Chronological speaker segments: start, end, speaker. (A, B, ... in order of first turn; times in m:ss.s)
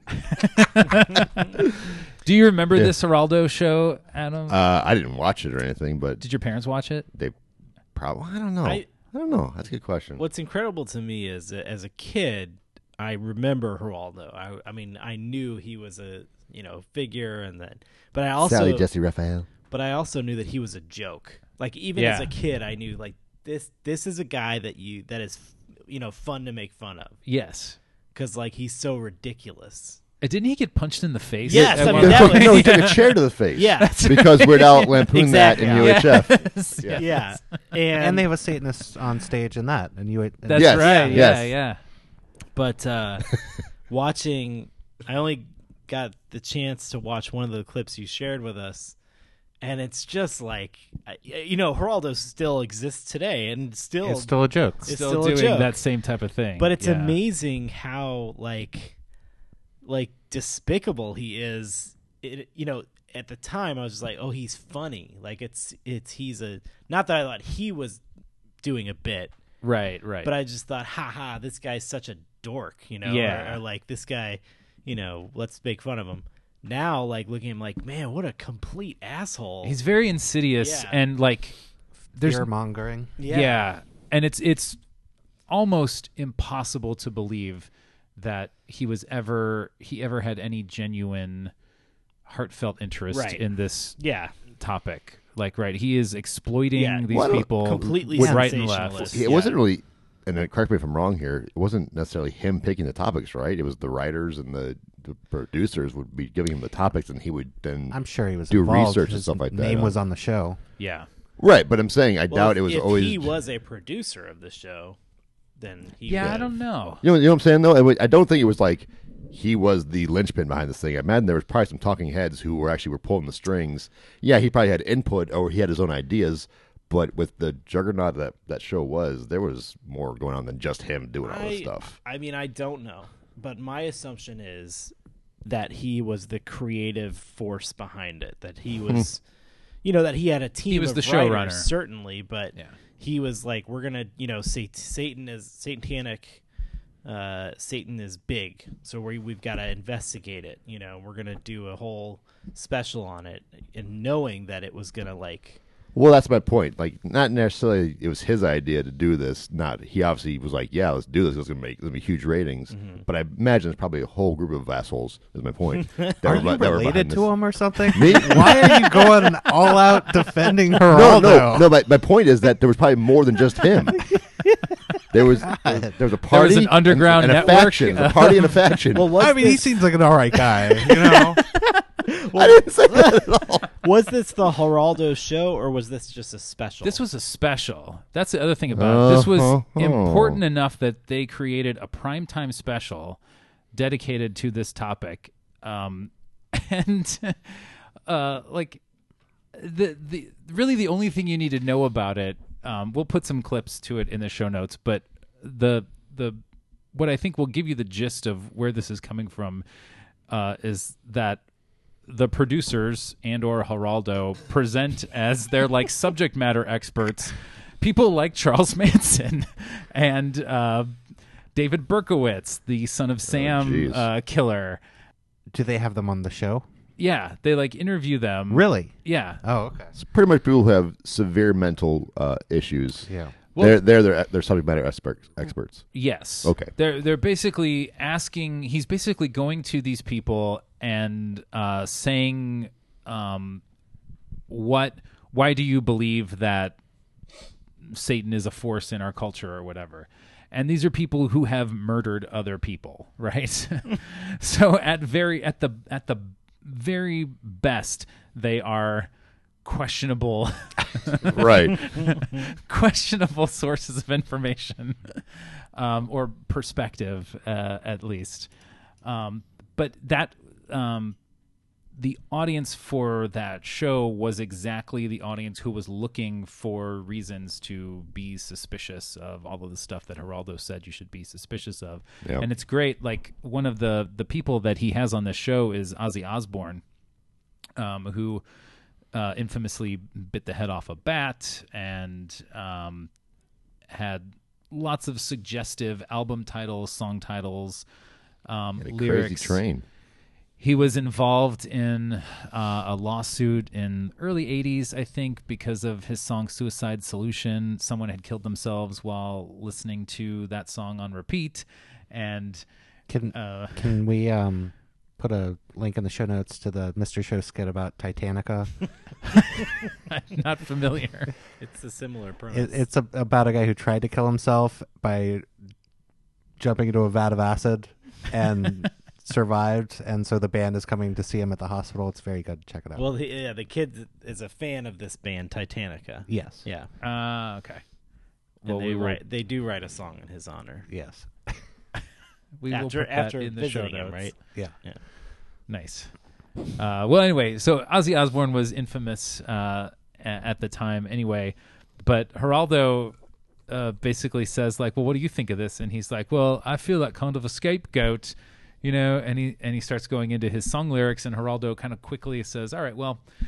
0:00.1-0:04.6 A
0:04.5-0:06.2 B
0:06.2-0:07.1 A
0:07.9-0:10.2 B
0:10.2-0:18.9 C
0:18.4-0:19.5 B
0:19.7-0:27.2 C
0:22.0-0:22.3 A
0:27.2-0:27.8 A
0:28.1-0:30.0 C
0:30.2-0:33.2 A
0:31.4-0:36.3 C
0:31.5-0:37.0 B
0:33.8-0:35.1 A
0:35.6-0:37.3 A
0:36.9-0:38.3 C
0:37.9-0:41.2 D
0:40.4-0:41.8 A
0:40.5-0:41.5 B
0:40.8-0:41.4 C
0:42.5-0:49.0 C
0:49.6-0:55.8 C
0:54.0-0:54.9 D
0:54.8-0:57.2 A
0:56.6-0:59.0 C
0:59.8-1:08.0 C
1:08.6-1:09.3 C
1:09.6-1:10.3 A
1:10.2-1:19.8 C
1:13.0-1:13.6 A
1:19.6-1:21.6 A
1:20.6-1:21.0 C
1:22.1-1:22.5 A
1:22.2-1:23.1 D
1:23.2-1:23.7 C
1:23.3-1:24.8 A
1:25.5-1:31.5 A
1:32.2-1:34.0 A
1:33.1-1:33.4 C
1:34.0-1:34.3 C
1:34.5-1:39.2 A
1:36.7-1:39.6 C
1:37.1-1:37.9 B
1:38.2-1:38.5 D
1:39.0-1:48.0 B
1:47.9-1:50.6 D
1:48.5-1:49.9 B
1:50.8-1:51.1 A
1:51.4-1:53.3 B
1:52.3-1:55.0 C
1:55.6-1:56.5 C
1:56.0-1:57.0 A
1:56.2-1:56.4 B
1:57.0-2:12.0 B
2:11.2-2:14.9 C
2:15.4-2:19.2 C
2:19.8-2:26.4 C
2:20.7-2:21.7 A
2:27.0-2:35.6 C
2:35.9-2:49.0 B
2:42.7-2:43.0 C
2:46.2-2:51.7 D
2:50.9-2:54.1 B
2:55.1-2:59.1 B
2:55.5-2:55.9 D
2:56.3-2:58.6 A
2:58.9-2:59.8 C
2:59.0-3:01.4 D
3:00.5-3:07.0 C
3:02.3-3:03.7 B
3:06.8-3:13.2 A
3:08.7-3:10.4 B
3:13.7-3:18.8 A
3:19.5-3:26.4 A
3:26.9-3:29.6 A
3:30.3-3:31.4 A
3:32.1-3:41.0 A
3:41.5-3:44.8 A
3:43.3-3:44.1 B
3:45.5-3:46.6 D
3:47.0-3:49.4 A
3:48.5-3:49.9 D
3:49.9-3:55.9 B
3:53.1-3:53.3 D
3:53.5-3:53.8 A
3:55.9-4:03.6 A
3:56.4-3:56.7 B
4:04.5-4:06.8 A
4:07.8-4:19.1 A
4:19.6-4:28.5 A
4:21.2-4:21.9 B
4:29.0-4:31.2 A
4:32.0-4:46.8 A
4:47.8-4:48.4 A
4:49.1-4:53.1 A
4:53.9-4:57.8 A
4:58.4-4:59.6 A
4:58.8-4:59.8 B
5:00.6-5:12.6 A
5:13.1-5:18.8 D
5:13.3-5:14.0 A
5:19.3-5:21.3 A
5:21.6-5:22.8 C
5:22.5-5:25.5 D
5:26.6-5:33.1 D
5:32.9-5:36.9 C
5:36.3-5:36.6 D
5:37.0-5:37.8 A
5:38.6-5:39.2 A
5:38.6-5:40.9 C
5:40.9-5:41.6 D
5:42.6-5:44.3 A
5:42.7-5:45.0 C
5:45.7-5:46.1 A
5:46.7-5:53.2 A
5:53.7-6:03.2 A